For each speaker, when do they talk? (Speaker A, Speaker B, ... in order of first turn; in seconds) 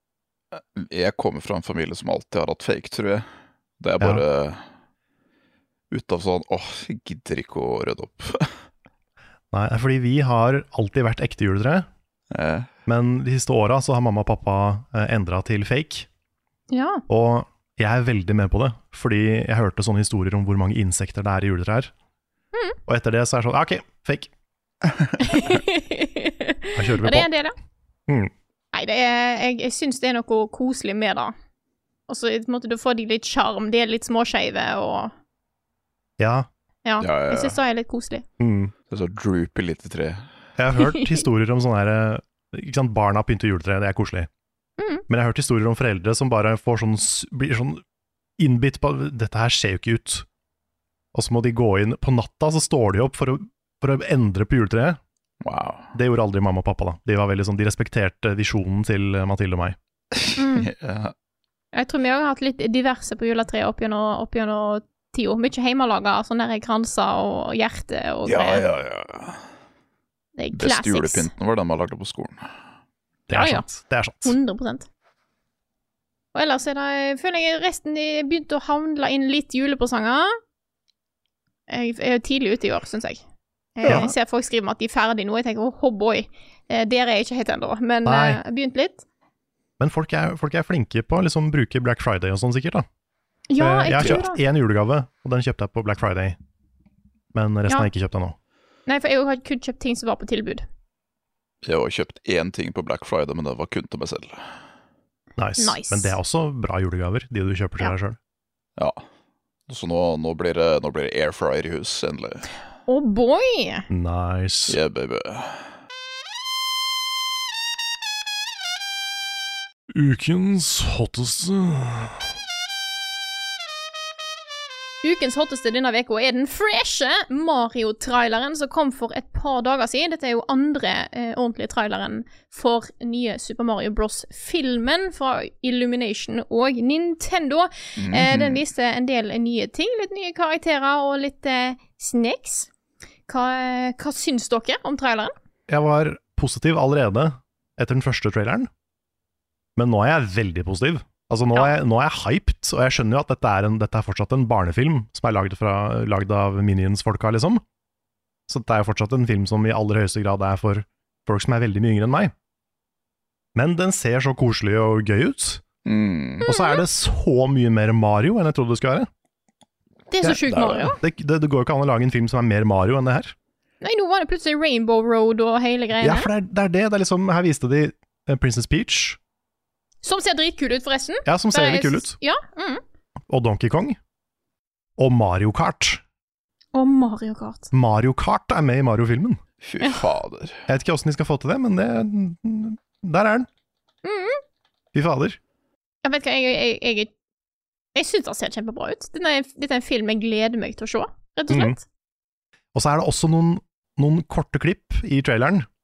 Speaker A: 0.5-3.3, 3.8-4.6, 5.9-8.5, 12.3-12.7, 37.0-37.5, 38.9-40.2, 55.4-55.9, 60.1-61.1, 68.2-69.4, 70.5-72.5, 101.6-104.5, 108.8-109.0, 109.7-112.5, 114.7-115.7, 138.0-138.6, 165.8-166.5, 170.5-170.9, 189.6-190.6
Speaker B: 4.0-4.2, 9.5-11.9, 12.8-16.1, 17.1-21.9, 22.9-24.3, 26.7-27.3, 28.1-28.3, 36.2-36.5, 38.4-38.7, 40.6-44.3, 45.1-47.8, 48.4-50.2, 51.1-55.0, 55.9-59.8, 73.3-74.3, 83.8-84.1, 88.0-88.4, 89.8-92.8, 93.6-96.4, 97.3-98.3, 105.4-108.2, 113.9-114.8, 119.9-122.3, 145.7-148.7, 149.8-157.6, 158.5-162.3, 163.5-165.6, 166.4-169.1, 171.0-173.3, 176.0-179.2, 181.2-182.2, 183.3-184.0, 185.0-186.0, 187.7-189.4, 190.7-193.5, 194.9-195.4, 201.5-201.8, 202.7-205.7
Speaker C: 16.7-17.0, 25.2-27.5, 28.7-31.3, 32.1-35.1, 36.8-38.2, 40.9-41.2, 44.8-45.0, 60.4-60.7, 61.7-68.6, 70.3-71.3, 73.3-73.7, 74.2-74.9, 76.3-80.3, 81.7-83.2, 83.8-89.0, 93.5-94.4, 98.9-100.6, 105.6-106.2, 112.9-113.8, 125.0-142.7, 143.3-145.3, 166.4-166.8, 170.1-171.0, 173.8-176.3, 180.0-182.8, 186.7-187.7, 194.0-194.4, 196.0-197.1, 197.9-201.8